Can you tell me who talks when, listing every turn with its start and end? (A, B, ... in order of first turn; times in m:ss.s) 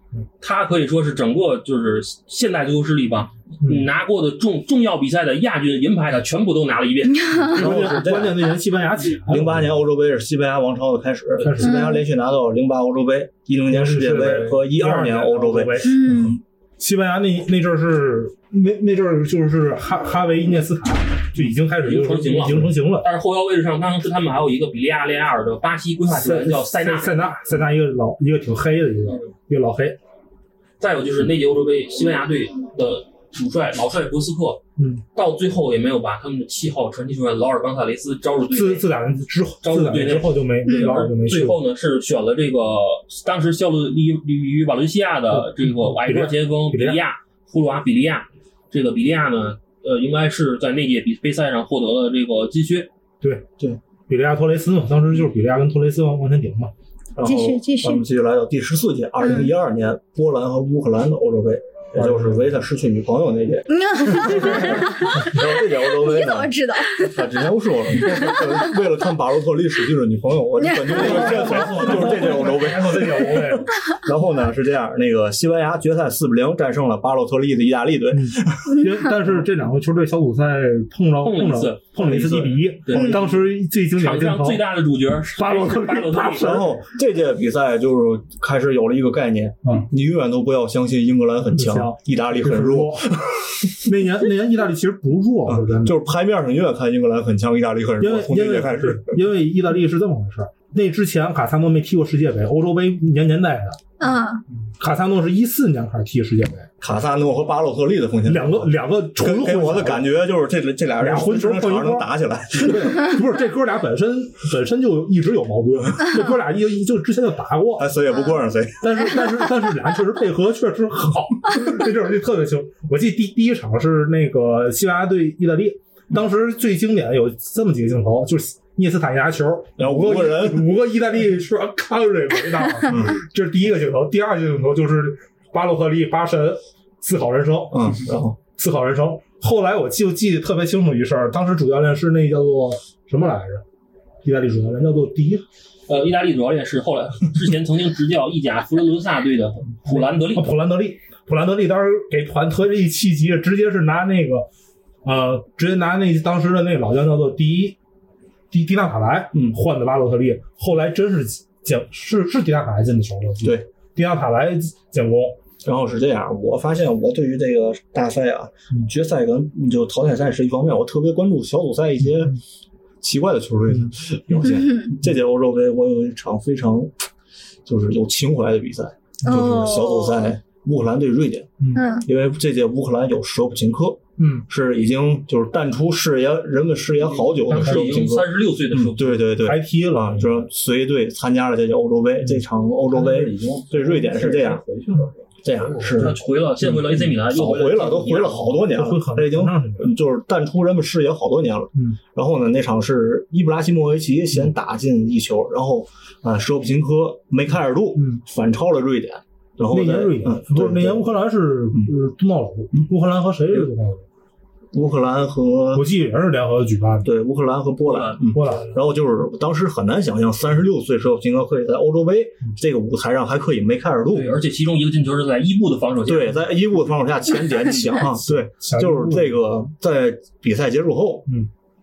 0:00.4-0:07.7 A
0:07.6-0:08.6 B
0:07.6-0:09.8 C
0:09.3-0:16.3 B
0:11.4-0:11.8 C
0:11.6-0:12.0 D
0:13.7-0:23.1 C
0:15.8-0:16.4 D
0:21.8-0:27.2 A
0:26.1-0:30.0 C
0:30.8-0:34.6 A
0:34.8-0:35.0 C
0:35.2-0:38.9 A
0:38.5-0:41.6 C
0:39.6-0:52.9 A
0:45.3-0:47.0 C
0:54.1-0:56.7 C
0:57.2-1:18.8 B
0:57.2-0:58.0 D
0:59.2-0:59.5 D
1:01.9-1:02.5 C
1:03.7-1:07.2 D
1:10.6-1:11.6 D
1:10.9-1:13.6 C
1:18.1-1:24.6 C
1:21.2-1:23.0 A
1:22.2-1:23.4 B
1:24.0-1:26.6 A
1:25.4-1:26.8 C
1:26.4-1:33.7 B
1:31.5-1:33.2 C
1:33.7-1:36.0 C
1:35.5-1:39.2 B
1:38.0-1:43.8 C
1:44.0-1:44.4 D
1:44.8-1:46.7 C
1:46.8-1:53.1 B
1:48.3-1:50.1 C
1:51.0-1:57.9 C
1:57.8-1:59.1 B
1:58.8-2:18.0 C
2:09.8-2:10.8 B
2:12.9-2:13.2 B
2:17.7-2:18.4 B
2:18.6-2:23.6 C
2:24.2-2:25.4 C
2:25.9-2:30.5 A
2:29.9-2:34.5 C
2:35.0-2:37.8 C
2:38.5-2:45.4 C
2:45.6-2:52.4 B
2:53.0-2:56.9 B
2:54.4-2:54.9 D
2:57.7-3:14.6 B
2:59.2-3:00.2 D
3:01.8-3:02.1 D
3:04.2-3:04.5 C
3:07.1-3:09.3 A
3:07.7-3:07.9 C
3:09.4-3:10.4 C
3:12.9-3:16.1 E
3:15.4-3:16.2 B
3:16.0-3:18.5 A
3:17.2-3:31.2 B
3:18.6-3:19.9 C
3:28.0-3:28.2 C
3:29.7-3:34.0 C
3:34.7-3:35.9 B
3:35.8-3:37.1 C
3:37.0-3:44.4 B
3:37.9-3:38.6 A
3:38.3-3:38.7 C
3:44.1-3:46.4 A
3:46.0-3:51.3 B
3:48.2-3:49.4 C